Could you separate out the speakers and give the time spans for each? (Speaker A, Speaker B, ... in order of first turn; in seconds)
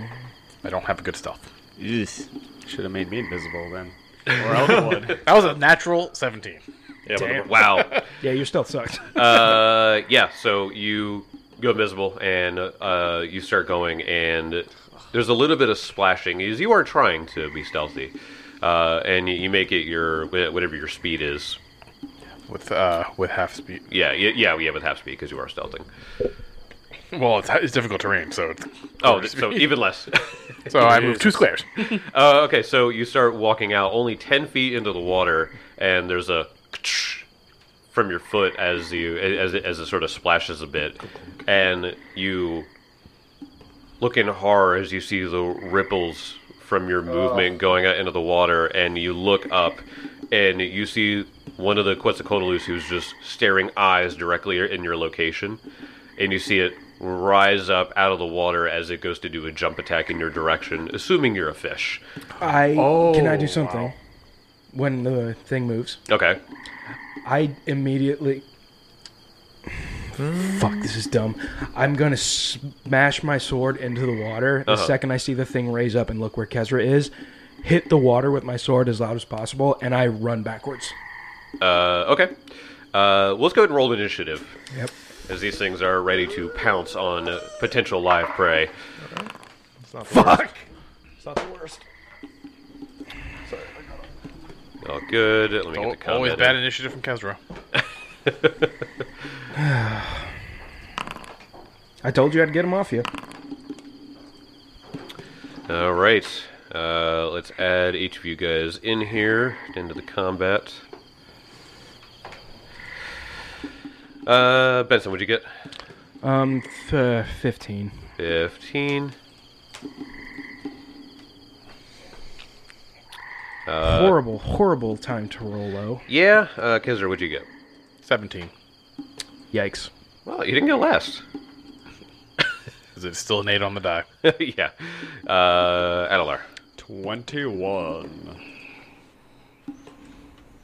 Speaker A: 0.6-1.4, 5.2-6.6, 22.5-23.8, 27.1-29.7, 30.7-32.0, 95.7-97.4, 128.0-128.5, 132.9-134.1
Speaker B: 1.8-5.2, 136.8-138.4
Speaker C: 7.0-7.5, 30.8-31.4, 62.4-63.9, 70.2-70.8, 89.0-90.6, 91.2-91.8, 93.5-94.0
Speaker D: 7.2-7.5, 8.2-9.6, 62.4-63.9, 64.7-66.0, 67.2-68.4, 70.2-77.1, 77.6-80.9, 90.1-90.5, 99.5-100.3, 102.0-103.1, 116.2-118.0, 123.8-126.0, 129.5-129.9
Speaker E: 7.4-8.0, 9.1-21.6, 23.9-25.9, 29.0-31.2, 31.9-37.2, 37.9-42.7, 44.0-55.6, 56.2-62.0, 66.1-66.4, 74.7-74.9, 81.6-82.3, 82.9-84.5, 85.3-88.7, 94.8-96.6, 98.2-98.7, 105.7-110.8, 114.2-115.5, 118.2-119.1, 123.7-124.2, 126.1-127.5, 130.2-131.2, 134.2-136.4